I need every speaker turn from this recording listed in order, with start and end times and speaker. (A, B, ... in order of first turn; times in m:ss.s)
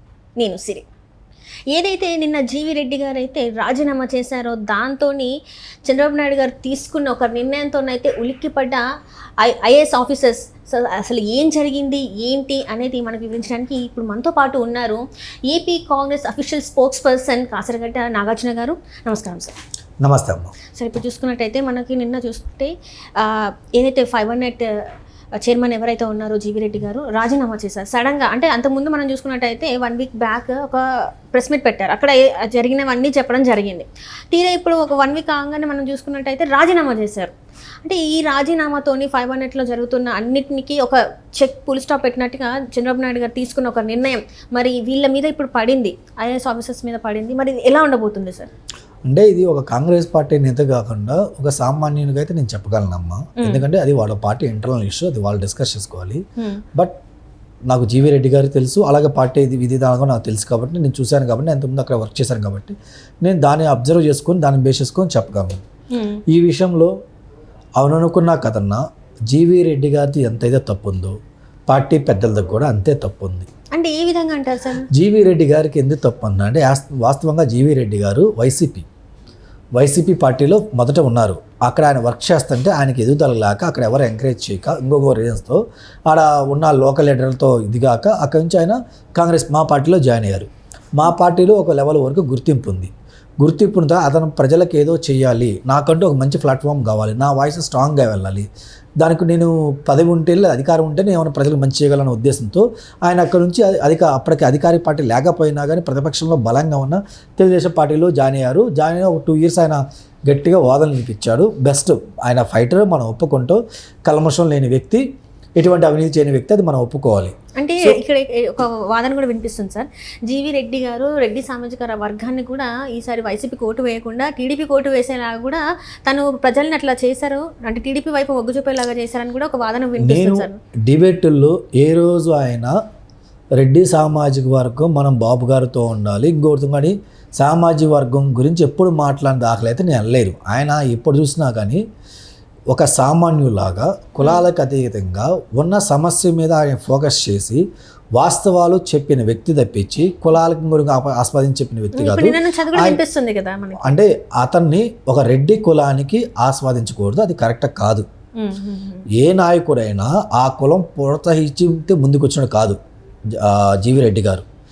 0:00.4-0:00.8 A
0:01.7-0:08.8 A
0:09.4-0:19.5 A
0:20.0-0:20.5 B
0:20.7-0:37.3 A
0:37.8-0:48.5 A
0:49.0-0:56.2 B
0:53.4-0:53.6 A
0:57.7-1:05.6 B
1:05.9-1:06.2 A
1:06.3-1:06.9 B
1:07.8-1:11.2 B
1:11.7-1:13.5 B
1:13.7-1:14.9 A
1:14.9-1:18.9 B
1:19.7-1:38.5 B
1:39.0-1:55.0 B
1:55.6-1:58.0 B
1:57.6-2:10.6 A
2:10.0-2:12.8 B
2:13.6-2:21.8 B
2:22.7-2:27.6 B
2:28.2-2:33.0 B
2:31.9-2:33.9 A
2:33.8-2:38.0 B
2:38.4-2:39.0 A
2:39.2-2:42.8 B
2:43.3-2:44.4 B